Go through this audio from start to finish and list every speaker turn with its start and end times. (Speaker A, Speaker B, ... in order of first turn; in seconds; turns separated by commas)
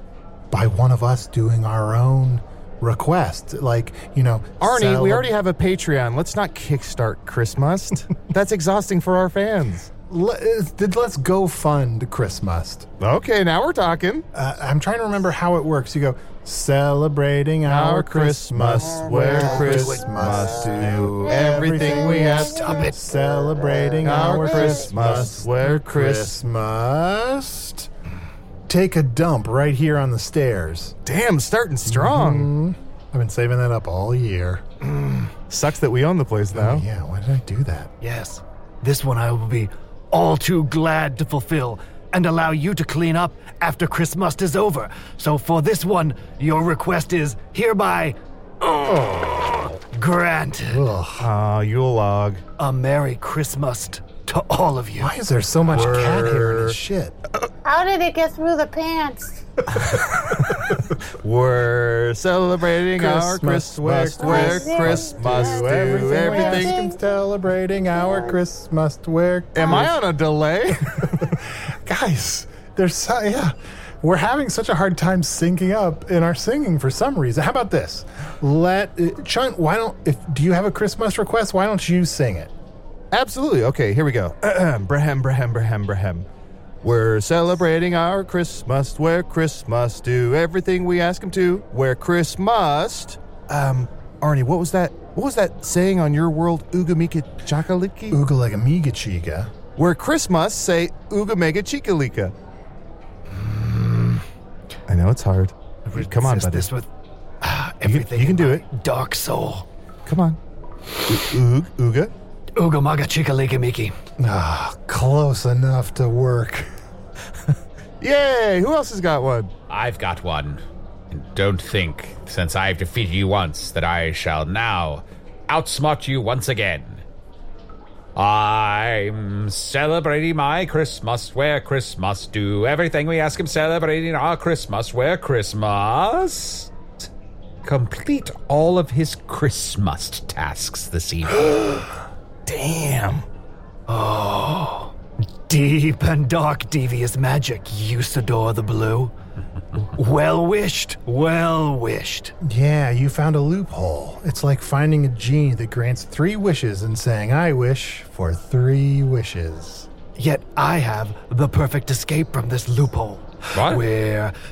Speaker A: 0.5-5.3, Speaker B: 4.6-9.9, Speaker A: 10.1-12.9, Speaker B: 13.0-14.3, Speaker A: 14.3-27.9, Speaker B: 17.6-22.7, Speaker C: 21.4-22.9, Speaker B: 24.0-26.4, Speaker C: 24.0-24.9, Speaker A: 28.7-30.9, Speaker B: 31.1-32.5, Speaker A: 31.9-34.6, Speaker B: 35.5-36.9, Speaker A: 36.5-37.9, Speaker D: 38.0-48.1, Speaker A: 48.9-49.6, Speaker D: 50.0-50.6, Speaker A: 50.7-51.3, Speaker B: 51.2-52.5, Speaker D: 52.6-55.0, Speaker A: 55.0-57.2, Speaker B: 55.7-56.8, Speaker C: 57.6-59.4, Speaker B: 61.2-66.8, Speaker A: 62.9-70.0, Speaker C: 64.2-67.0, Speaker C: 67.9-68.4, Speaker B: 69.5-71.1, Speaker A: 71.9-82.5, Speaker B: 83.1-86.3, Speaker B: 86.8-98.2, Speaker A: 98.1-99.5, Speaker B: 99.8-102.3, Speaker B: 104.9-106.7, Speaker B: 107.8-108.7, Speaker D: 108.4-109.5, Speaker B: 110.1-110.4, Speaker B: 111.1-112.1, Speaker D: 112.6-113.9, Speaker A: 114.2-116.7, Speaker B: 118.0-119.5, Speaker E: 119.7-127.0, Speaker E: 128.2-136.7, Speaker E: 137.6-141.5, Speaker B: 141.4-141.8, Speaker B: 142.5-143.2, Speaker D: 145.5-149.0, Speaker D: 150.1-152.3, Speaker A: 152.4-159.9, Speaker D: 160.2-161.8, Speaker D: 162.6-163.1, Speaker E: 163.5-163.8, Speaker D: 163.8-164.2